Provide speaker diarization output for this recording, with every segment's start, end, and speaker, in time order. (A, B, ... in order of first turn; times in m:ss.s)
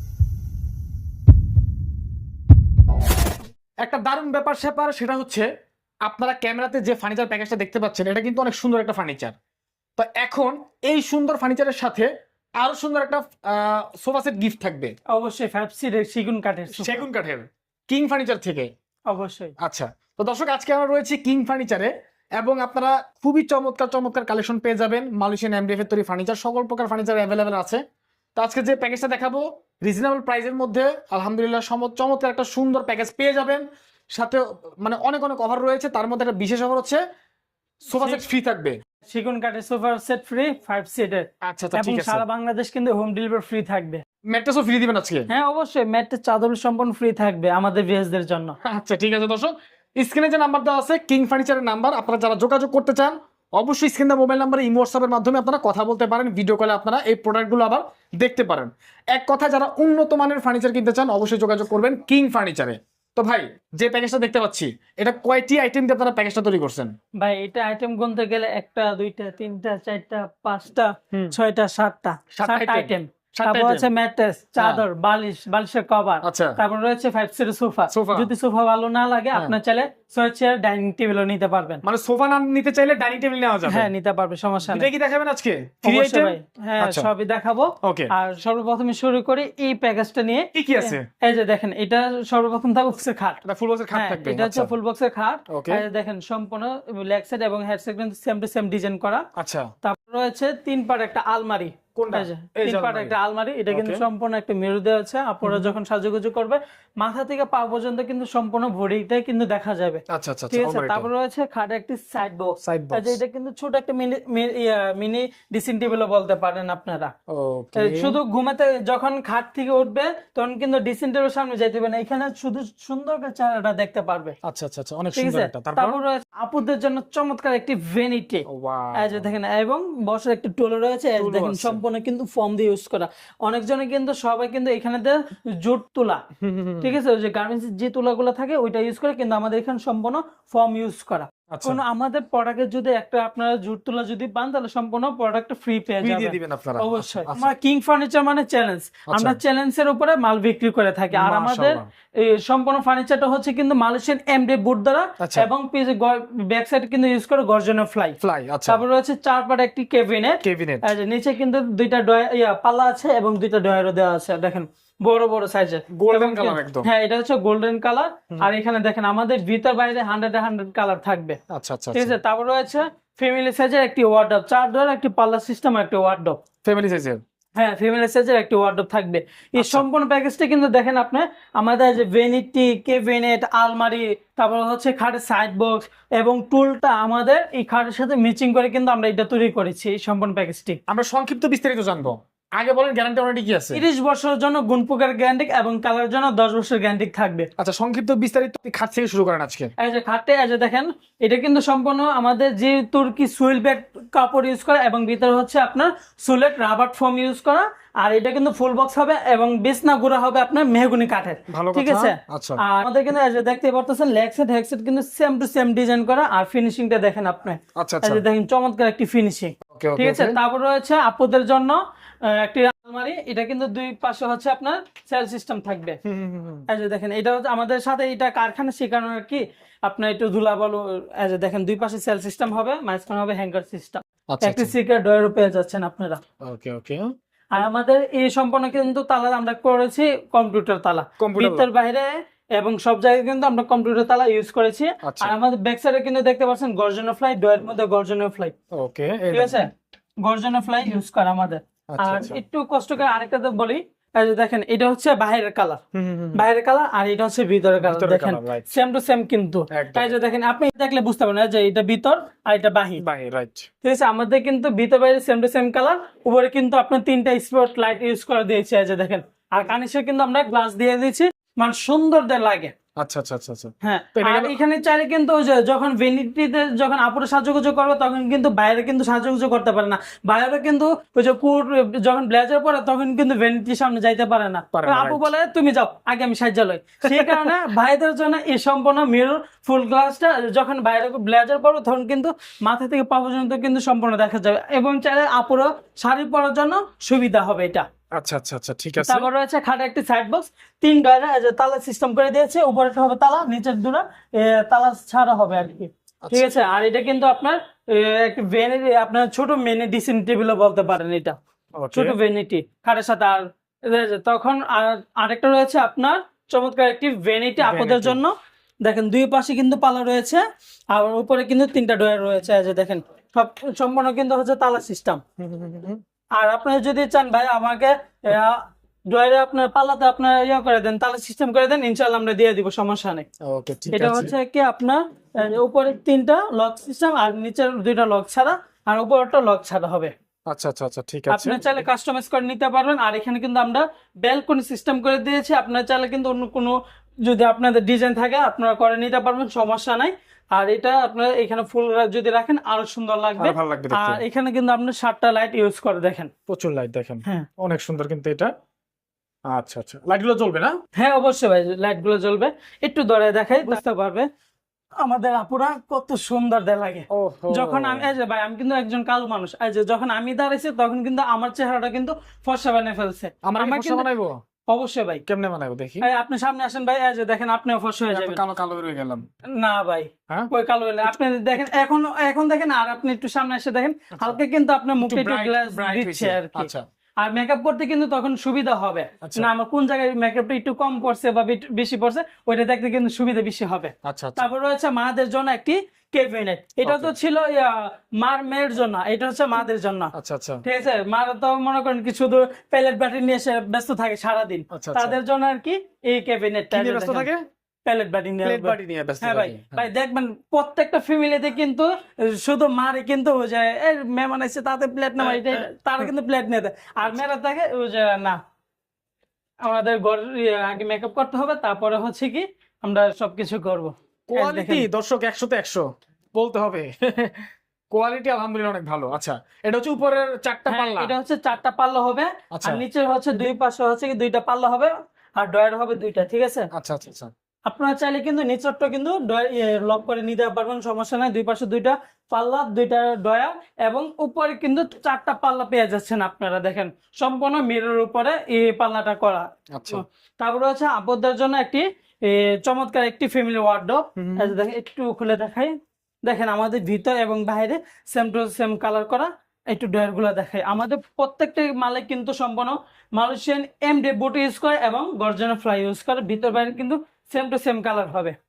0:03.8-0:05.5 A
0:06.0-0:09.3 A
0:10.0-0:14.9 A
0:15.1-0:17.0 B
0:16.8-0:18.7 A
0:19.1-0:19.5 B
0:19.6-0:27.8 A
0:28.4-0:37.0 A
0:37.9-0:38.8 A
0:37.9-0:38.2 B
0:39.0-0:44.0 B
0:41.4-0:42.2 A
0:44.3-0:45.3 A
0:45.3-0:48.6 B
0:48.6-1:06.9 A
1:07.2-1:21.8 B
1:12.3-1:13.8 A
1:14.6-1:14.8 A
1:16.2-1:16.6 A
1:17.9-1:18.3 A
1:21.8-1:23.9 A
1:23.6-1:24.9 B
1:24.7-1:27.1 A
1:25.8-1:33.4 B
1:27.8-1:28.1 A
1:30.5-1:31.1 A
1:33.4-1:34.7 A
1:33.9-1:39.3 B
1:35.5-1:35.8 A
1:39.4-1:39.7 A
1:39.8-1:57.1 B
1:42.0-1:43.2 A
1:43.7-1:44.0 A
1:45.4-1:45.7 A
1:50.1-1:51.1 A
1:52.6-1:53.2 A
1:57.3-1:58.2 A
1:57.8-2:04.3 B
2:04.4-2:06.0 A
2:05.1-2:16.2 B
2:08.5-2:09.3 A
2:11.2-2:11.8 A
2:16.4-2:16.9 A
2:16.8-2:51.4 B
2:21.5-2:21.8 A
2:26.0-2:27.5 A
2:29.1-2:29.4 A
2:31.1-2:31.8 A
2:35.2-2:35.5 A
2:38.2-2:38.8 A
2:40.4-2:40.9 A
2:45.9-2:46.9 A
2:51.5-2:52.2 A
2:51.9-2:56.4 B
2:56.6-2:57.2 A
2:57.6-3:10.8 B
2:59.6-2:59.8 A
3:10.9-3:13.8 A
3:13.7-3:17.5 B
3:17.6-3:19.7 A
3:19.8-3:46.0 B
3:31.5-3:32.6 A
3:37.8-3:38.2 A
3:39.7-3:40.4 A
3:46.0-3:46.7 A
3:46.7-3:56.2 B
3:54.3-3:54.7 A
3:56.4-3:57.1 A
3:57.5-4:08.5 B
4:01.2-4:01.7 A
4:05.0-4:05.4 A
4:08.7-4:09.6 A
4:09.3-4:09.7 B
4:10.2-4:15.8 B
4:11.9-4:12.4 A
4:15.9-4:16.4 A
4:16.3-4:23.0 B
4:17.8-4:18.7 A
4:19.7-4:20.2 A
4:23.0-4:23.7 A
4:23.8-4:32.7 B
4:33.0-4:34.6 A
4:33.8-4:57.9 B
4:44.7-4:45.3 A
4:47.1-4:47.5 A
4:58.1-4:59.3 A
4:59.0-5:11.4 B
5:06.2-5:06.5 A
5:11.8-5:12.2 A
5:11.9-5:25.2 B
5:17.6-5:18.2 A
5:25.4-5:26.0 A
5:26.4-5:28.6 B
5:29.1-5:33.3 B
5:33.4-5:34.3 A
5:33.9-5:40.1 B
5:40.5-5:41.8 A
5:41.3-5:46.7 B
5:47.2-5:56.3 B
5:53.4-5:54.2 A
5:56.5-5:58.5 A
5:59.5-6:00.8 A
6:01.0-6:04.3 B
6:05.0-6:14.1 B
6:07.1-6:08.1 A
6:13.4-6:14.4 A
6:14.7-6:15.2 B
6:15.3-6:16.1 A
6:16.0-6:18.4 B
6:18.1-6:19.2 A
6:19.5-6:26.7 B
6:25.0-6:26.8 A
6:27.2-6:40.1 B
6:29.2-6:29.5 A
6:34.0-6:34.5 A
6:36.8-6:37.1 A
6:40.1-6:40.6 A
6:40.6-6:47.3 B
6:44.7-6:45.2 A
6:46.7-6:47.4 A
6:47.8-6:58.4 B
6:48.4-6:49.9 A
6:55.2-6:56.0 A
6:59.6-7:04.9 B
7:04.3-7:11.1 A
7:10.7-7:16.7 B
7:12.5-7:12.8 A
7:16.7-7:17.3 A
7:17.7-7:48.4 B
7:29.7-7:30.0 A
7:34.2-7:34.6 A